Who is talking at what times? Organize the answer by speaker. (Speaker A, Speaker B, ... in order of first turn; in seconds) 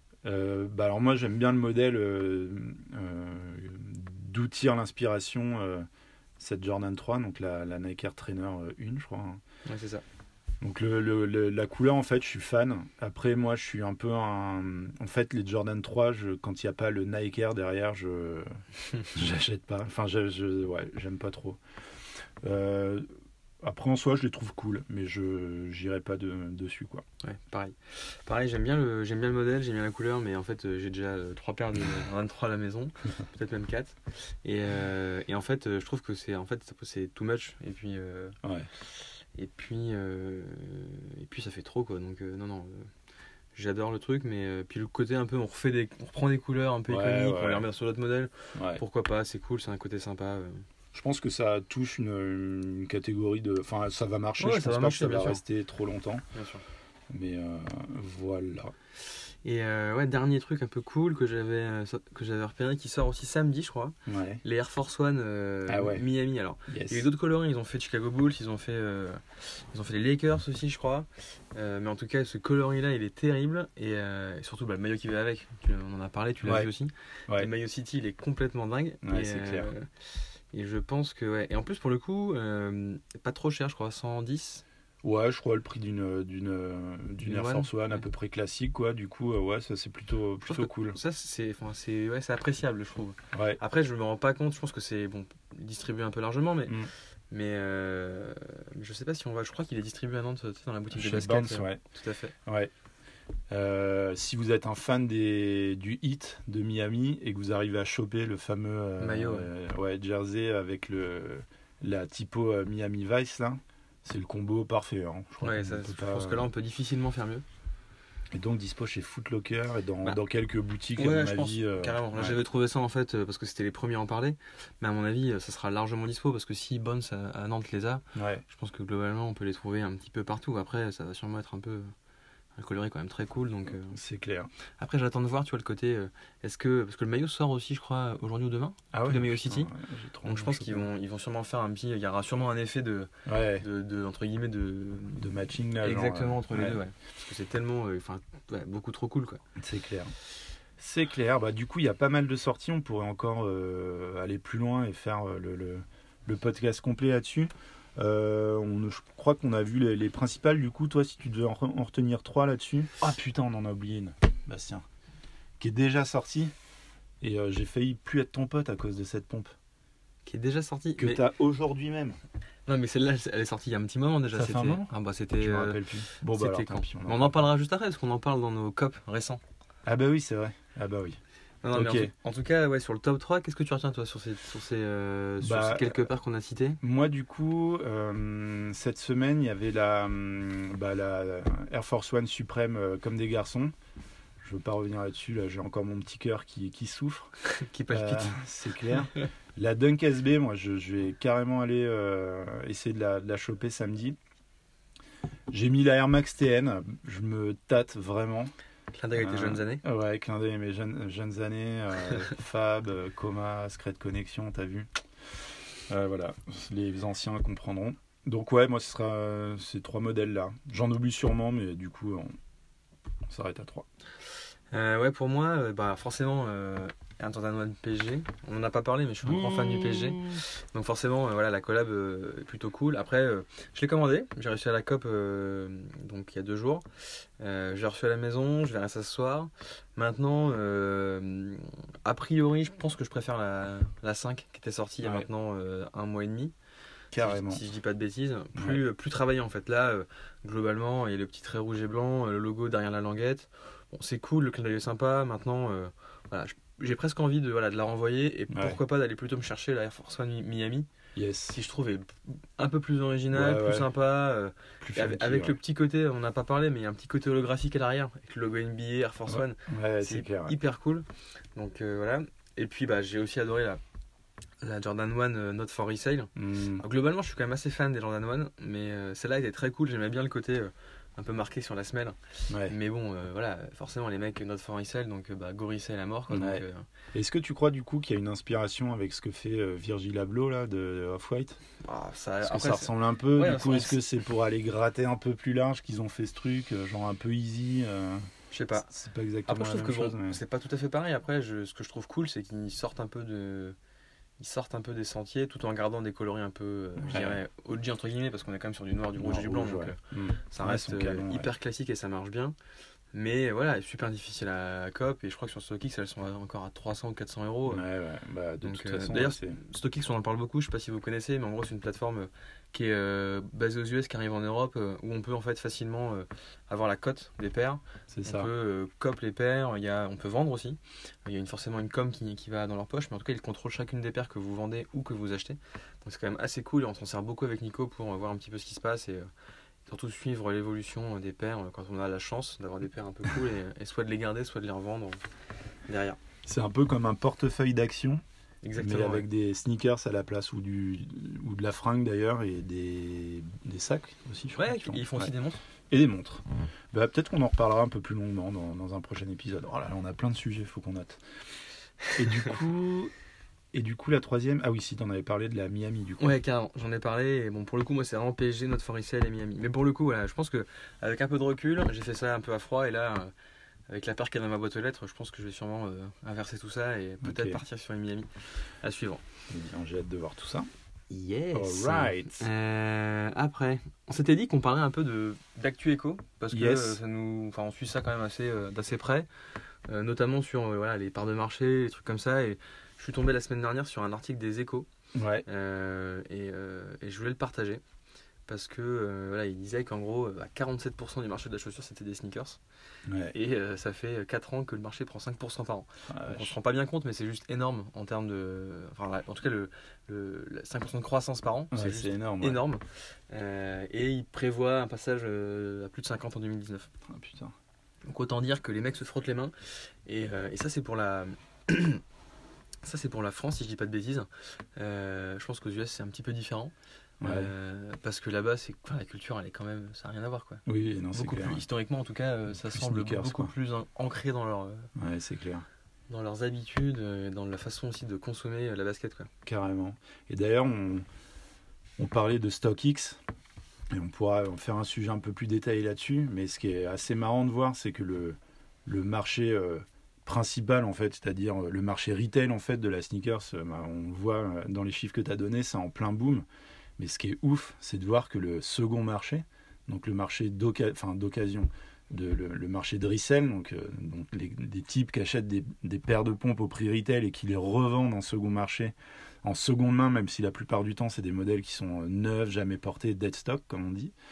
Speaker A: 0.2-5.8, 6.4-9.4, 10.6-18.6, 19.1-21.6, 22.4-23.1, 23.6-27.0, 38.4-38.7, 46.9-47.6, 48.5-48.8, 50.9-56.2, 57.1-58.7, 64.1-64.4, 65.7-66.0, 66.7-67.0, 76.4-76.7, 79.0-79.7, 85.0-91.0, 93.3-93.6, 100.9-101.8, 102.5-102.7, 103.5-116.5, 118.3-122.3, 128.1-128.4, 133.9-134.5, 138.9-140.9, 143.3-143.7, 145.2-146.8, 149.6-150.1, 150.8-164.8, 165.6-166.5, 167.2-169.5, 171.0-172.2, 174.3-177.4, 179.8-181.2, 181.7-182.1, 185.4-186.0, 186.8-193.7, 194.4-197.3, 197.9-204.2, 205.5-208.5, 209.2-214.9, 215.9-222.3, 223.3-223.8, 229.2-230.4, 247.1-247.6, 248.5-248.8, 258.5-258.8, 261.1-261.6, 263.3-263.9, 264.8-265.6, 269.3-270.5, 276.4-276.8, 282.5-282.7, 286.3-291.6, 292.4-300.4, 307.1-307.4, 309.2-311.5, 317.7-319.6, 328.1-328.5, 346.4-348.2, 348.8-355.3, 355.9-361.2, 362.1-363.1, 363.7-366.4, 377.2-377.6, 379.5-380.7, 381.5-382.5, 386.5-387.0, 395.1-395.4, 403.1-403.3, 406.1-406.5, 411.7-412.6, 417.1-417.5, 427.2-427.5, 430.6-431.6, 432.5-433.5, 434.9-435.6, 439.4-441.1, 442.0-443.2, 443.9-456.4, 457.0-474.1
Speaker B: 9.7-10.0, 27.2-38.4, 39.3-42.9, 43.5-50.6, 54.4-55.4, 56.3-56.6, 59.4-84.6, 87.2-88.0, 90.4-96.8, 97.3-102.3, 109.0-109.5, 115.4-117.4, 121.0-131.9, 132.6-134.0, 134.8-139.7, 140.2-145.2, 145.8-149.4, 170.2-171.2, 172.7-175.8, 176.3-179.4, 181.6-186.8, 197.4-198.4, 208.9-209.8, 224.7-246.5, 247.2-260.9, 261.5-273.8, 274.6-286.9, 291.8-294.0, 298.5-298.9, 299.5-303.8, 304.4-310.0, 310.5-312.5, 313.1-317.8, 318.6-339.3, 339.9-345.2, 345.9-346.2, 348.6-349.3, 354.5-355.6, 366.2-373.3, 373.9-379.2, 381.1-389.3, 389.9-394.9, 395.4-397.8, 398.5-402.6, 403.3-416.9, 418.0-422.0, 422.8-434.9, 436.1-439.3